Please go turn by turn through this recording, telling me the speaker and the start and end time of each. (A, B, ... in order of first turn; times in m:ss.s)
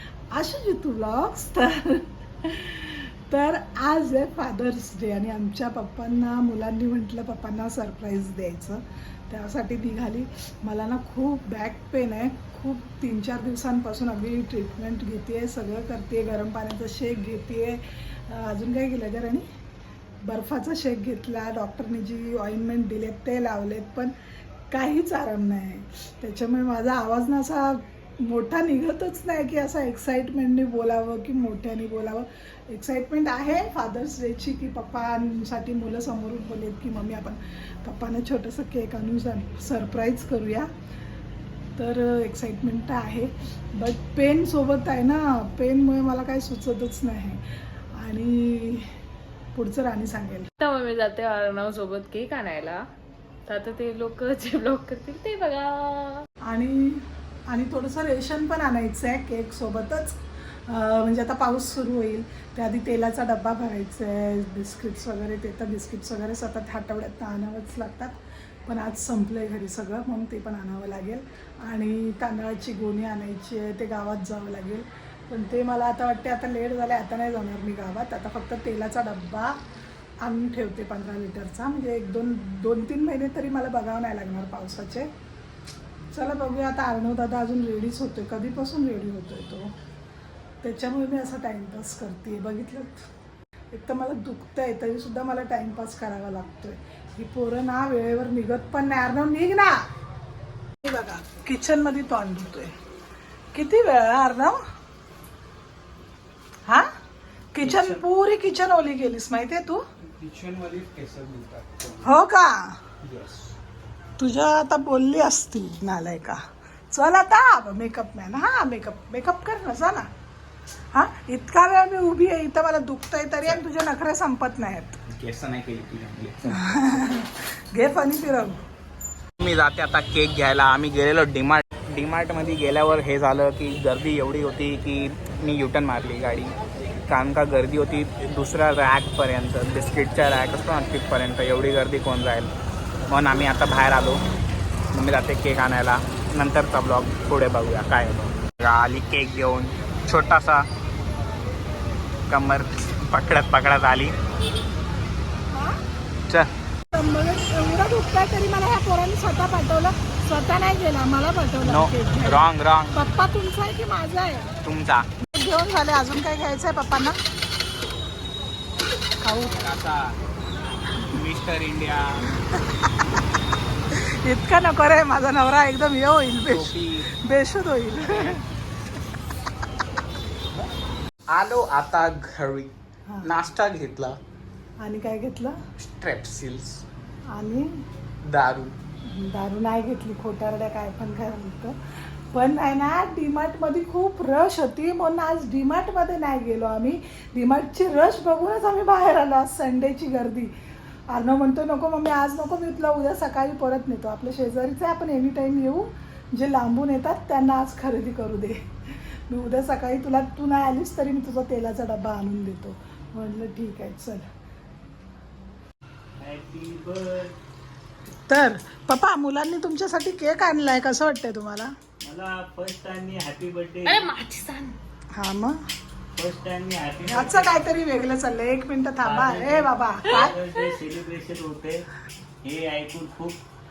0:00.3-0:19.5 A
0:20.2-0:24.1 A
0:24.7-0:40.7 A
0:41.8-0:47.4 A
0:48.0-0:48.9 A
0:49.5-0:50.5 A
0:50.6-0:52.9 B
0:53.5-0:56.2 B
0:56.4-1:08.2 A
1:08.7-1:19.6 A
1:20.2-1:25.1 A
1:26.1-1:29.7 A
1:30.6-1:33.1 A
1:33.7-1:39.9 A
1:40.8-1:42.7 A
1:43.5-1:44.6 A
1:47.5-1:49.8 A
1:47.6-1:48.0 C
1:50.2-1:52.2 D
1:52.0-1:52.8 A
1:53.0-1:53.5 D
1:54.2-1:56.4 A
1:56.9-2:00.1 A
2:00.9-2:05.0 A
2:05.1-2:06.7 D
2:06.5-2:08.6 A
2:09.4-2:22.5 D
2:23.1-2:24.2 D
2:24.9-2:30.7 D
2:32.3-2:34.2 D
2:35.5-2:35.8 A
2:36.9-2:44.5 A
2:41.6-2:43.0 D
2:44.6-2:45.1 D
2:45.2-2:47.2 A
2:49.2-2:49.7 A
2:49.6-2:50.2 D
2:51.1-2:52.3 D
2:53.9-2:58.4 A
2:56.5-2:57.1 D
2:58.1-2:58.4 D
3:01.3-3:04.2 D
3:04.8-3:05.6 A
3:05.8-3:06.8 D
3:07.3-3:07.7 A
3:08.2-3:08.8 D
3:09.1-3:11.8 A
3:12.3-3:20.5 A
3:21.1-3:34.3 A
3:36.2-3:37.3 C
3:38.3-3:41.7 A
3:42.0-3:44.1 C
3:43.9-3:44.8 B
3:45.1-3:45.6 A
3:46.2-3:47.6 C
3:47.1-3:50.3 A
3:49.0-3:51.9 C
3:52.4-3:53.4 C